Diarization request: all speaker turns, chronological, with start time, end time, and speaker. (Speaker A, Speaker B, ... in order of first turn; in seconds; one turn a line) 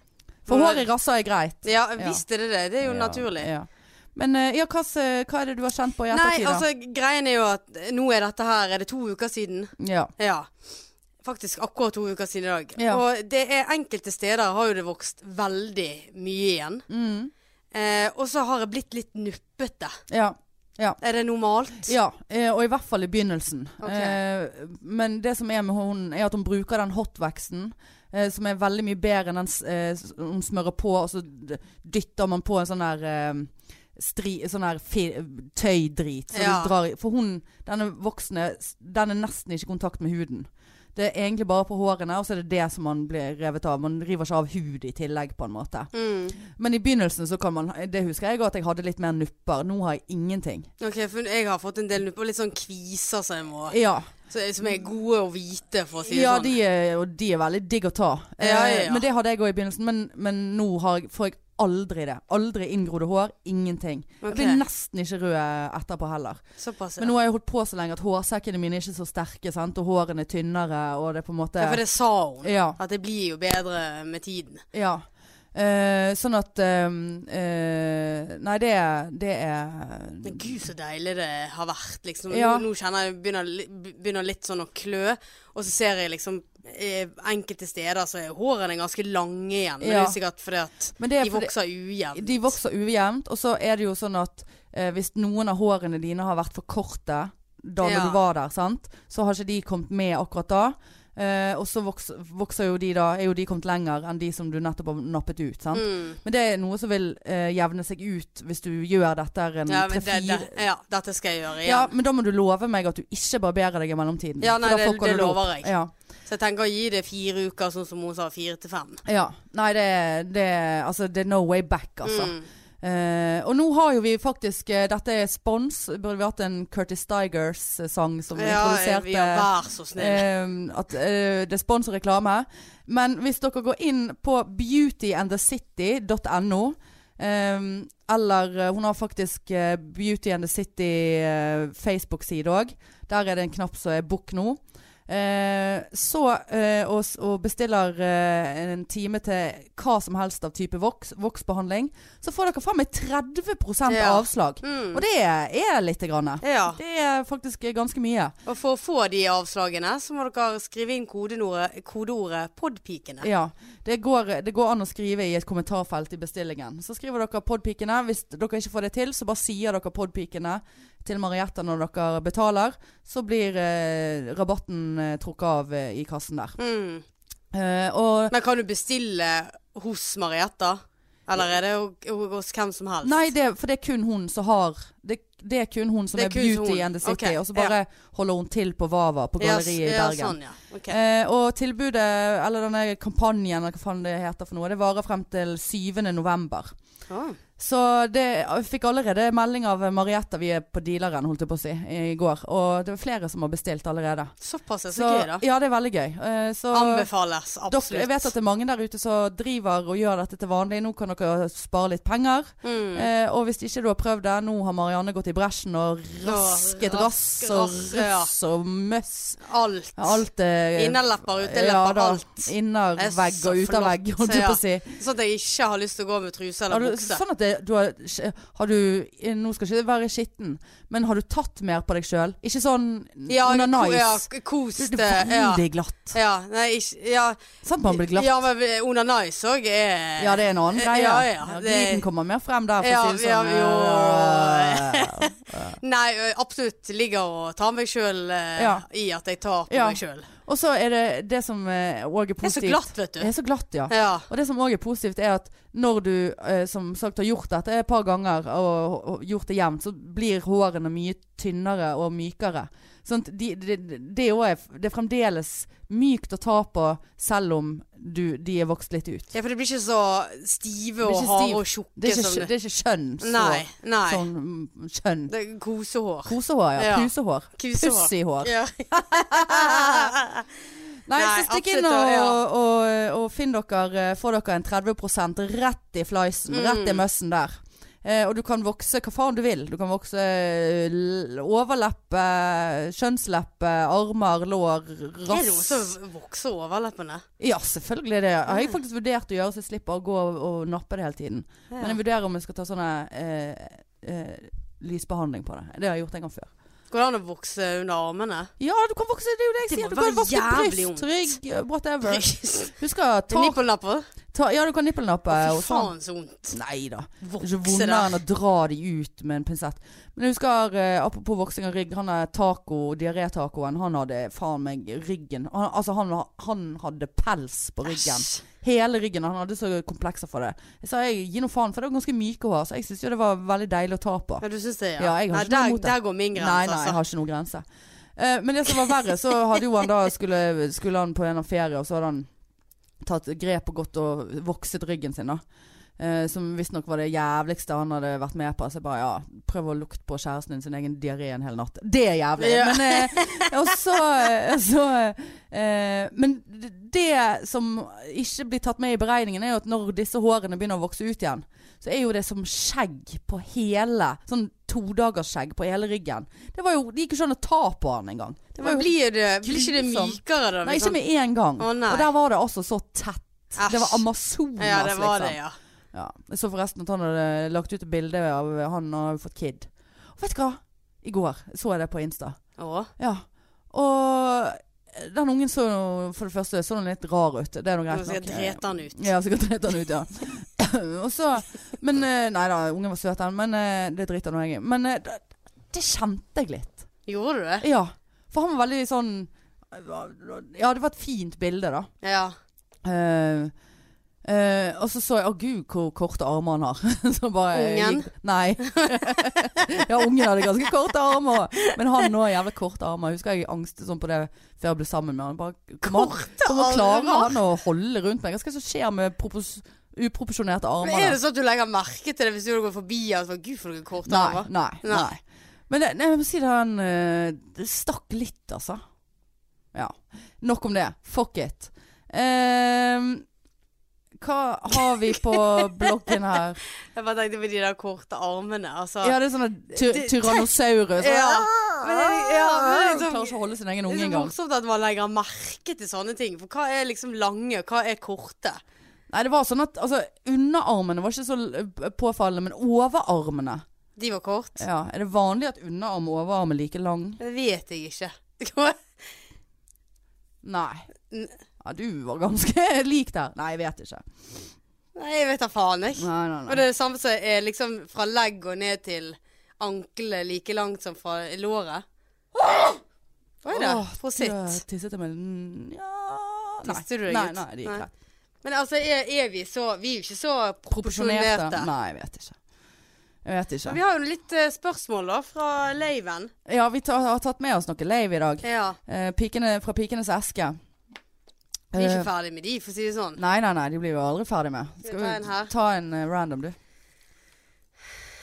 Speaker A: 0.5-2.2
Speaker B: 0.5-0.9
Speaker B: 1.6-3.5
Speaker A: 2.8-6.6
Speaker B: 6.1-10.7
Speaker A: 9.8-10.1
Speaker B: 11.2-16.8
Speaker A: 12.8-13.0
Speaker A: 16.9-17.3
Speaker B: 17.7-20.0
Speaker A: 20.1-21.0
Speaker B: 21.0-21.9
Speaker A: 21.8-50.7
Speaker B: 23.8-24.2
Speaker B: 36.3-36.7
Speaker B: 45.9-46.4
Speaker B: 50.8-56.6
Speaker A: 53.7-54.1
Speaker A: 56.1-66.4
Speaker B: 58.4-59.0
Speaker B: 64.2-64.6
Speaker B: 66.6-67.1
Speaker A: 67.0-71.8
Speaker B: 71.6-74.6
Speaker A: 72.4-72.8
Speaker A: 74.7-80.6
Speaker B: 80.2-92.5
Speaker A: 82.3-82.7
Speaker A: 89.8-90.2
Speaker A: 91.0-91.5
Speaker A: 92.1-110.5
Speaker B: 97.8-98.2
Speaker B: 105.7-106.2
Speaker B: 109.7-111.9
Speaker A: 111.6-115.9
Speaker B: 114.4-115.7
Speaker B: 116.3-119.0
Speaker A: 119.0-158.3
Speaker B: 122.0-122.5
Speaker B: 128.3-130.3
Speaker B: 153.9-155.0
Speaker B: 156.4-156.8
Speaker B: 158.4-163.3
Speaker A: 163.2-176.6
Speaker B: 176.6-177.0
Speaker A: 177.5-178.3
Speaker B: 178.3-183.3
Speaker A: 183.0-190.4
Speaker B: 186.1-187.7
Speaker B: 189.4-191.0
Speaker A: 190.9-196.7
Speaker B: 197.1-197.4
Speaker A: 197.6-204.3
Speaker B: 204.4-205.4
Speaker A: 204.9-207.1
Speaker B: 206.7-208.3
Speaker A: 207.7-219.4
Speaker B: 212.6-213.1
Speaker B: 216.2-218.3
Speaker B: 219.4-220.2
Speaker A: 220.0-225.0
Speaker B: 220.8-227.2
Speaker A: 226.7-234.2
Speaker B: 233.3-242.0
Speaker A: 234.8-236.2
Speaker A: 237.6-238.4
Speaker A: 240.2-245.8
Speaker B: 242.8-250.3
Speaker A: 248.6-248.8
Speaker A: 249.7-269.3
Speaker B: 252.4-253.3
Speaker B: 253.9-254.3
Speaker B: 269.3-272.5
Speaker A: 271.0-275.3
Speaker B: 273.2-274.2
Speaker B: 275.3-280.5
Speaker A: 276.3-280.1
Speaker A: 281.1-295.9
Speaker B: 281.1-282.4
Speaker B: 286.5-287.0
Speaker B: 295.3-297.2
Speaker A: 297.4-306.5
Speaker B: 301.7-302.0
Speaker B: 306.9-308.5
Speaker A: 308.6-313.6
Speaker B: 309.7-311.3
Speaker B: 312.1-312.8
Speaker B: 313.3-314.1
Speaker A: 314.3-315.9
Speaker B: 315.3-316.6
Speaker A: 316.5-334.4
Speaker B: 317.2-318.2
Speaker B: 327.9-328.4
Speaker B: 334.4-337.0
Speaker A: 335.0-337.6
Speaker A: 338.1-342.3
Speaker A: 343.0-345.4
Speaker A: 346.0-368.9
Speaker B: 352.4-353.5
Speaker B: 368.6-371.0
Speaker A: 369.4-375.4
Speaker B: 371.6-372.1
Speaker B: 373.6-374.0
Speaker B: 374.6-375.6
Speaker A: 375.9-382.4
Speaker B: 382.6-382.9
Speaker A: 383.0-396.8
Speaker B: 387.9-389.1
Speaker B: 397.1-397.6
Speaker A: 397.6-401.9
Speaker B: 402.0-402.3
Speaker A: 402.8-403.5
Speaker A: 404.2-421.2
Speaker B: 407.5-408.1
Speaker B: 408.6-409.5
Speaker B: 415.8-417.4
Speaker B: 420.8-425.1
Speaker A: 424.1-428.8
Speaker A: 429.7-433.3
Speaker A: 434.2-436.6
Speaker B: 434.8-435.9
Speaker B: 436.8-439.1
Speaker A: 439.0-444.3
Speaker B: 439.7-443.3
Speaker B: 443.9-448.6
Speaker A: 449.1-453.6
Speaker B: 454.0-454.6
Speaker A: 454.6-457.2
Speaker B: 457.2-459.1
Speaker A: 460.4-460.9
Speaker B: 461.1-461.4
Speaker A: 461.6-464.5
Speaker B: 464.9-471.8
Speaker A: 466.0-466.6
Speaker A: 472.4-472.8
Speaker B: 473.4-474.6
Speaker A: 473.5-477.9
Speaker B: 476.6-477.9
Speaker B: 478.4-481.7
Speaker A: 480.7-482.4
Speaker A: 483.2-483.8
Speaker B: 483.6-486.3
Speaker A: 486.4-490.6
Speaker B: 488.4-488.8
Speaker A: 491.7-492.1
Speaker B: 491.7-493.2
Speaker A: 493.2-496.6
Speaker B: 494.8-495.5